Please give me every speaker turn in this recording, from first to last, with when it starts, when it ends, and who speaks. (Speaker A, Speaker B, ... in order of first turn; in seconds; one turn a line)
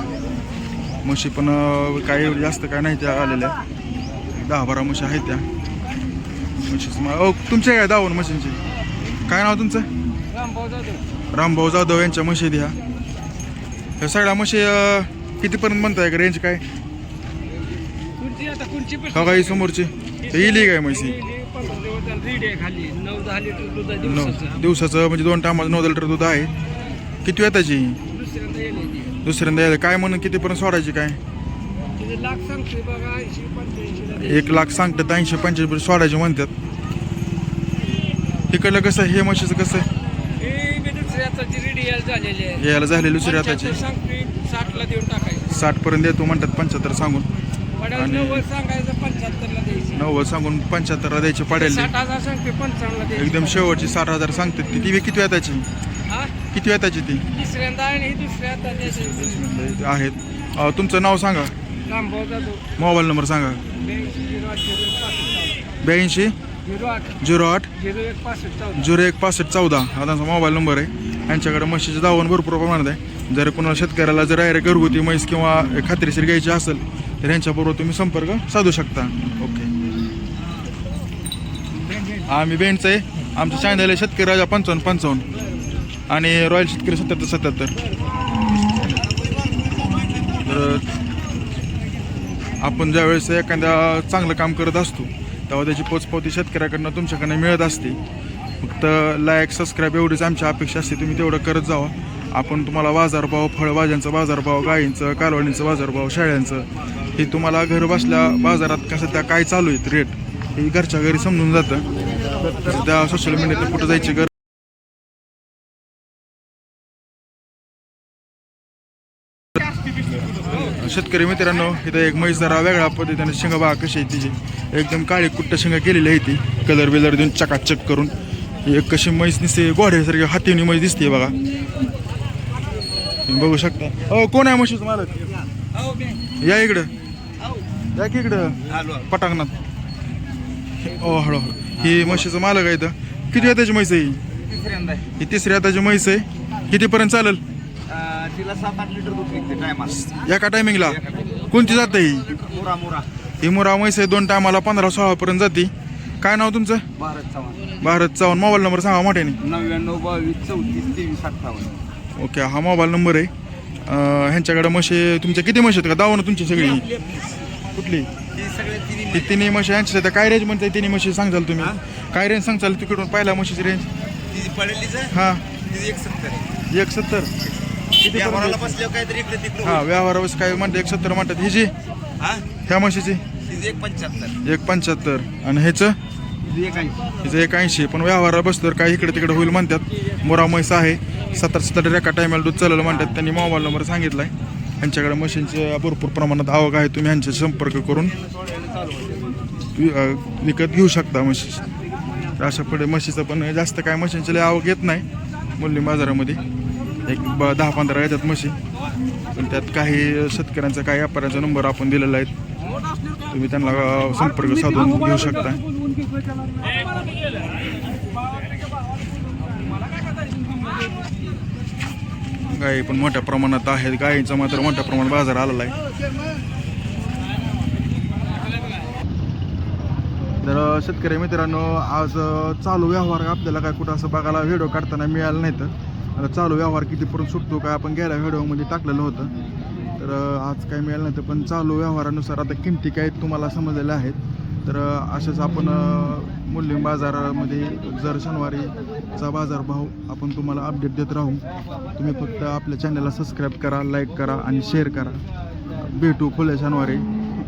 Speaker A: 1.0-3.6
Speaker A: 4.3-5.5
Speaker A: 6.6-8.6
Speaker A: 9.3-9.9
Speaker B: 10.3-11.0
Speaker A: 11.3-12.8
Speaker A: 14.0-16.6
Speaker B: 18.2-19.7
Speaker A: 19.1-21.2
Speaker B: 20.3-24.4
Speaker A: 24.0-26.5
Speaker A: 27.2-28.0
Speaker B: 28.2-29.1
Speaker A: 29.2-31.2
Speaker B: 32.0-34.2
Speaker A: 34.1-36.5
Speaker A: 38.5-39.9
Speaker B: 40.4-42.6
Speaker A: 42.5-43.8
Speaker B: 43.3-45.5
Speaker A: 45.5-47.3
Speaker B: 47.8-49.9
Speaker A: 47.9-48.5
Speaker A: 49.9-51.9
Speaker B: 51.5-53.7
Speaker A: 53.1-55.6
Speaker A: 56.5-57.2
Speaker B: 57.3-58.9
Speaker A: 58.8-61.5
Speaker B: 61.9-62.6
Speaker A: 62.8-63.6
Speaker B: 63.8-65.5
Speaker A: 65.8-66.3
Speaker B: 66.7-67.0
Speaker A: 67.2-67.7
Speaker B: 67.8-68.7
Speaker A: 68.7-79.7
Speaker A: 82.2-85.2
Speaker A: 86.1-87.7
Speaker A: 90.4-90.8
Speaker A: 92.6-98.0
Speaker A: 98.6-111.9
Speaker A: 112.6-114.3
Speaker A: 120.7-128.1
Speaker A: 128.7-131.3
Speaker A: 133.3-135.1
Speaker A: 136.4-136.9
Speaker A: 137.9-139.5
Speaker C: 138.7-139.1
Speaker A: 140.8-144.2
Speaker C: 144.5-145.0
Speaker A: 145.2-147.4
Speaker C: 147.9-150.1
Speaker A: 149.9-152.3
Speaker C: 150.8-151.4
Speaker C: 152.3-153.1
Speaker A: 153.4-156.8
Speaker C: 157.0-157.7
Speaker A: 157.8-159.4
Speaker C: 159.4-161.7
Speaker A: 162.2-163.3
Speaker A: 163.8-166.9
Speaker A: 167.7-168.1
Speaker C: 168.3-169.3
Speaker A: 169.1-173.9
Speaker C: 174.3-176.4
Speaker A: 175.1-175.4
Speaker A: 176.7-177.3
Speaker A: 177.9-178.8
Speaker C: 178.0-179.8
Speaker A: 179.6-181.7
Speaker A: 182.7-183.2
Speaker C: 183.4-184.3
Speaker A: 184.4-186.0
Speaker C: 186.4-187.1
Speaker A: 187.2-198.1
Speaker C: 192.8-193.1
Speaker C: 198.2-199.4
Speaker A: 199.7-201.7
Speaker A: 202.4-205.0
Speaker A: 205.6-206.4
Speaker A: 207.0-208.6
Speaker A: 209.3-212.3
Speaker A: 213.3-215.6
Speaker B: 215.8-216.8
Speaker A: 222.5-225.8
Speaker A: 230.4-239.3
Speaker A: 240.0-251.4
Speaker A: 252.0-255.2
Speaker A: 255.8-257.1